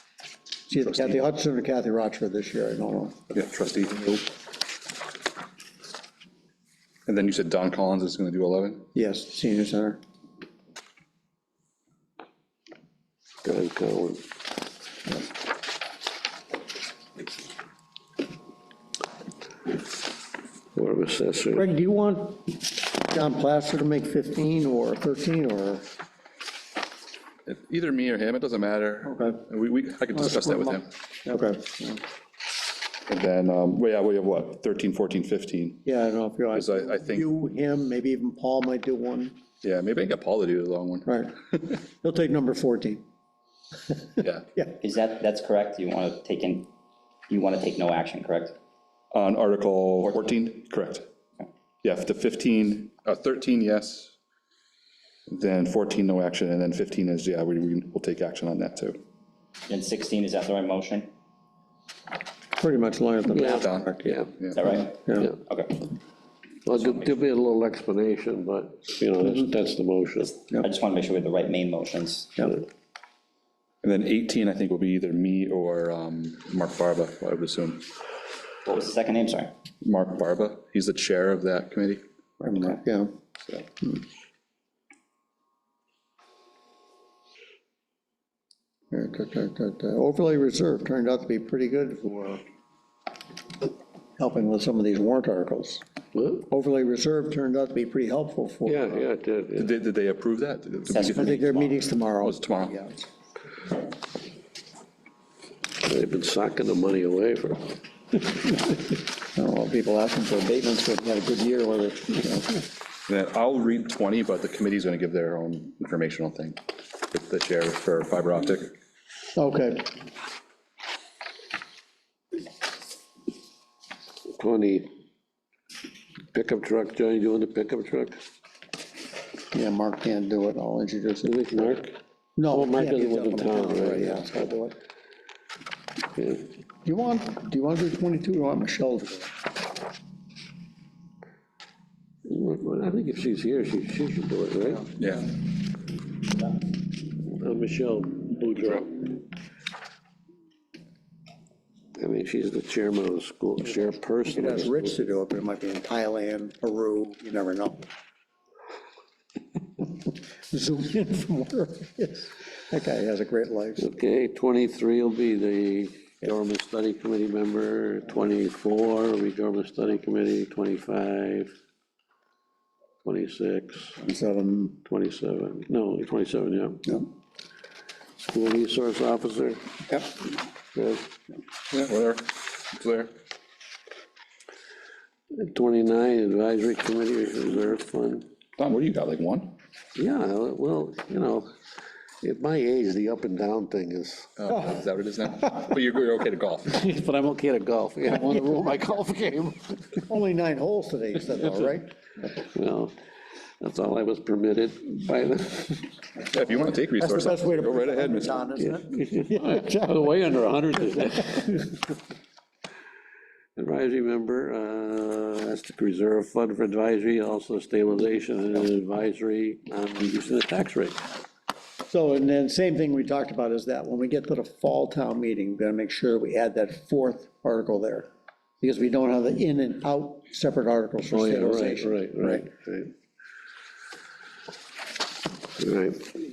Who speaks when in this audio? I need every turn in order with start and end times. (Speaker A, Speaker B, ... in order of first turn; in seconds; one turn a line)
Speaker A: 0.7-3.2
Speaker B: 0.9-1.2
Speaker B: 3.3-4.3
Speaker B: 7.0-8.9
Speaker A: 8.9-10.0
Speaker C: 13.4-14.2
Speaker C: 20.7-21.7
Speaker A: 21.5-25.9
Speaker B: 27.4-30.9
Speaker A: 29.0-29.4
Speaker A: 30.1-32.0
Speaker B: 33.1-35.8
Speaker A: 35.8-39.4
Speaker B: 36.5-37.3
Speaker B: 39.6-41.1
Speaker A: 41.0-43.0
Speaker B: 44.2-44.5
Speaker D: 44.8-46.7
Speaker D: 47.3-48.6
Speaker B: 49.1-51.1
Speaker D: 50.0-50.3
Speaker B: 51.8-54.1
Speaker B: 55.3-59.0
Speaker D: 59.7-61.1
Speaker A: 62.6-64.2
Speaker C: 63.3-64.3
Speaker B: 63.4-64.6
Speaker D: 64.5-65.9
Speaker A: 65.0-65.3
Speaker C: 66.7-70.4
Speaker D: 66.7-67.2
Speaker D: 70.5-72.5
Speaker B: 73.8-77.8
Speaker D: 78.6-79.5
Speaker B: 79.8-82.0
Speaker A: 82.4-83.1
Speaker A: 88.9-92.4
Speaker A: 94.2-95.8
Speaker C: 96.1-96.4
Speaker A: 96.3-99.1
Speaker C: 98.7-99.7
Speaker B: 99.5-102.8
Speaker D: 100.9-101.5
Speaker A: 101.1-103.1
Speaker C: 105.8-107.8
Speaker A: 109.3-112.5
Speaker B: 113.1-116.6
Speaker B: 117.1-118.7
Speaker A: 119.3-119.9
Speaker C: 124.3-124.9
Speaker C: 126.3-128.2
Speaker A: 129.5-131.7
Speaker C: 131.2-131.9
Speaker A: 132.3-134.7
Speaker C: 132.5-134.2
Speaker C: 136.2-136.5
Speaker A: 136.8-139.3
Speaker C: 142.2-144.9
Speaker B: 145.0-145.3
Speaker C: 147.3-149.2
Speaker C: 152.0-154.9
Speaker A: 153.8-157.8
Speaker A: 159.8-163.9
Speaker C: 163.8-171.5
Speaker C: 173.0-174.0
Speaker A: 174.0-174.8
Speaker C: 174.8-176.8
Speaker C: 178.2-179.6
Speaker C: 180.7-181.0
Speaker B: 181.7-183.1
Speaker C: 185.3-188.2
Speaker B: 188.6-189.5
Speaker C: 189.9-191.5
Speaker C: 192.2-194.3
Speaker B: 194.4-196.8
Speaker C: 196.7-200.0
Speaker A: 200.1-201.9
Speaker C: 202.4-202.9
Speaker C: 203.6-205.9
Speaker A: 206.2-210.1
Speaker B: 206.3-208.7
Speaker C: 209.0-211.8
Speaker C: 213.6-221.0
Speaker A: 221.9-228.1
Speaker A: 228.6-232.4
Speaker C: 231.1-232.9
Speaker C: 235.6-236.2